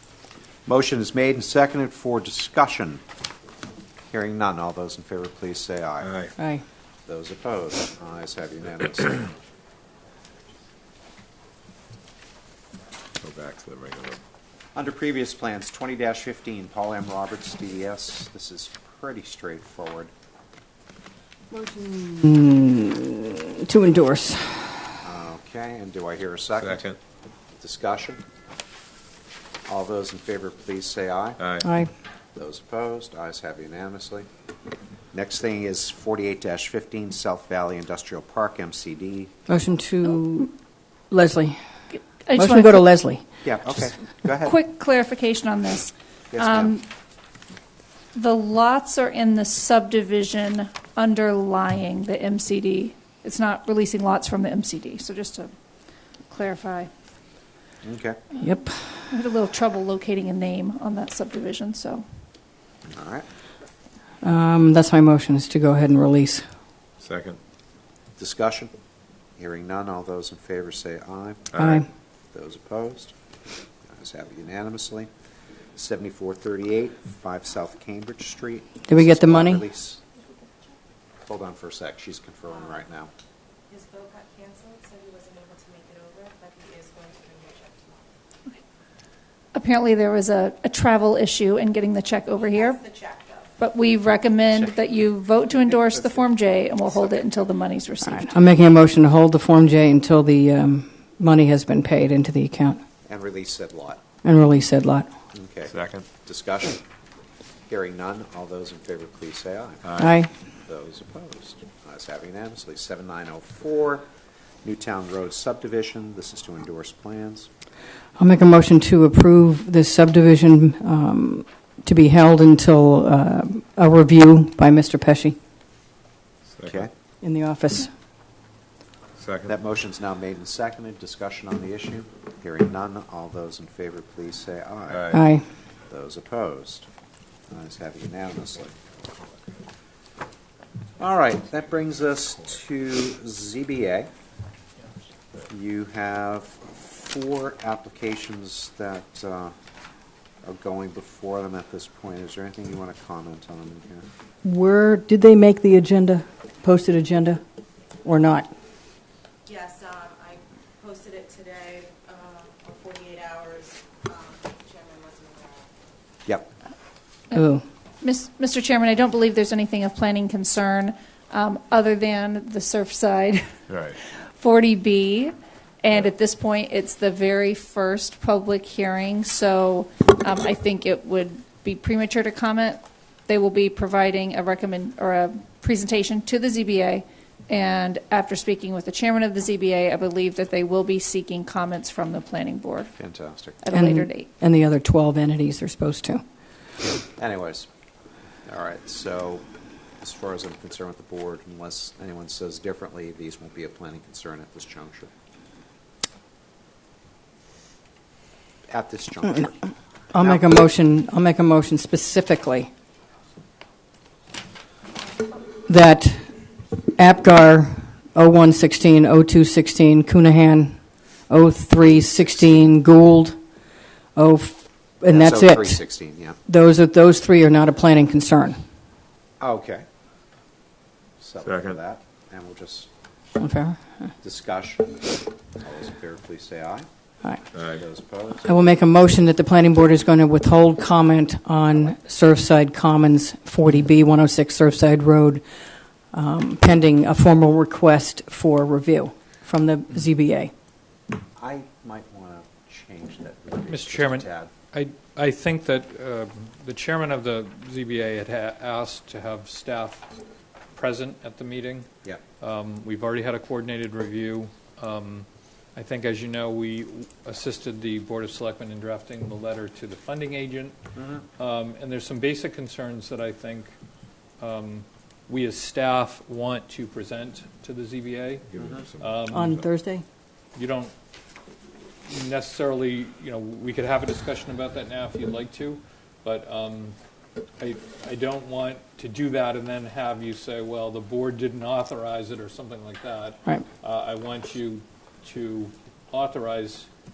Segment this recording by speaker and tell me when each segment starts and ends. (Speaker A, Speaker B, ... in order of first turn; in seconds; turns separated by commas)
Speaker A: 0.7-3.0, Speaker A: 4.1-6.1, Speaker B: 6.0-6.3, Speaker C: 6.4-6.6, Speaker A: 7.0-9.3, Speaker B: 13.2-14.2, Speaker A: 14.7-20.1, Speaker C: 21.5-24.9, Speaker A: 25.0-26.8, Speaker B: 26.6-27.0, Speaker A: 27.6-28.2, Speaker A: 29.6-31.4, Speaker B: 31.4-31.7, Speaker C: 31.6-31.9, Speaker A: 32.3-34.3, Speaker A: 35.1-39.3, Speaker C: 39.5-40.5, Speaker C: 41.1-41.6, Speaker D: 42.2-42.9, Speaker C: 42.3-43.2, Speaker A: 43.4-44.5, Speaker D: 44.4-46.8, Speaker A: 46.3-46.8, Speaker D: 48.1-55.5, Speaker D: 56.3-56.9, Speaker A: 57.8-58.2, Speaker C: 58.4-59.0, Speaker D: 59.1-62.0, Speaker A: 62.9-63.2, Speaker C: 64.2-66.5, Speaker B: 67.0-67.4, Speaker A: 68.2-68.7, Speaker A: 69.4-71.5, Speaker B: 71.5-71.8, Speaker C: 71.6-71.8, Speaker A: 72.3-73.1, Speaker A: 73.9-75.1, Speaker A: 75.7-80.0, Speaker C: 78.9-79.6, Speaker A: 81.2-83.1, Speaker E: 83.7-88.1, Speaker D: 89.5-92.8, Speaker E: 92.5-93.5, Speaker D: 93.6-98.4, Speaker A: 94.5-97.5, Speaker C: 98.0-102.8, Speaker A: 103.0-104.0, Speaker C: 104.2-105.1, Speaker A: 105.3-106.8, Speaker B: 105.7-106.1, Speaker A: 107.7-109.8, Speaker B: 109.8-110.1, Speaker C: 110.0-110.3, Speaker A: 110.7-114.0, Speaker A: 114.6-117.5, Speaker C: 118.2-125.4, Speaker B: 126.5-126.9, Speaker C: 127.2-127.9, Speaker B: 129.2-129.5, Speaker A: 129.5-135.1, Speaker B: 134.9-135.2, Speaker C: 135.1-135.4, Speaker A: 135.9-136.8, Speaker A: 137.5-138.7, Speaker A: 141.0-144.1, Speaker A: 145.5-149.5, Speaker A: 150.4-154.1, Speaker C: 154.4-157.4, Speaker C: 158.0-158.5, Speaker E: 159.4-165.7, Speaker C: 167.3-167.6, Speaker D: 168.0-173.4, Speaker B: 173.7-174.0, Speaker D: 174.0-192.9, Speaker A: 193.0-193.6, Speaker D: 193.6-194.3, Speaker C: 193.7-196.2, Speaker A: 197.2-197.7, Speaker A: 198.4-199.4, Speaker A: 200.0-205.1, Speaker A: 208.7-209.6, Speaker C: 210.1-212.7, Speaker A: 210.2-210.5, Speaker C: 215.7-216.3, Speaker C: 216.9-220.8, Speaker C: 221.3-223.4, Speaker C: 224.2-225.8, Speaker A: 225.1-226.4, Speaker C: 226.4-228.6, Speaker A: 229.4-229.8, Speaker A: 231.2-232.9, Speaker B: 231.4-231.8, Speaker C: 233.4-234.1, Speaker A: 234.2-236.9, Speaker B: 237.5-237.8, Speaker A: 237.7-238.5, Speaker C: 238.4-245.4, Speaker C: 246.1-250.5, Speaker A: 251.4-254.5, Speaker F: 253.7-260.1, Speaker F: 260.7-261.9, Speaker F: 262.4-270.8, Speaker A: 270.9-271.2, Speaker F: 271.4-273.7, Speaker F: 274.4-278.4, Speaker B: 278.5-279.6, Speaker A: 278.6-278.9, Speaker F: 279.0-279.5, Speaker C: 279.3-280.0, Speaker F: 280.5-280.9, Speaker F: 282.1-286.9, Speaker F: 287.6-296.9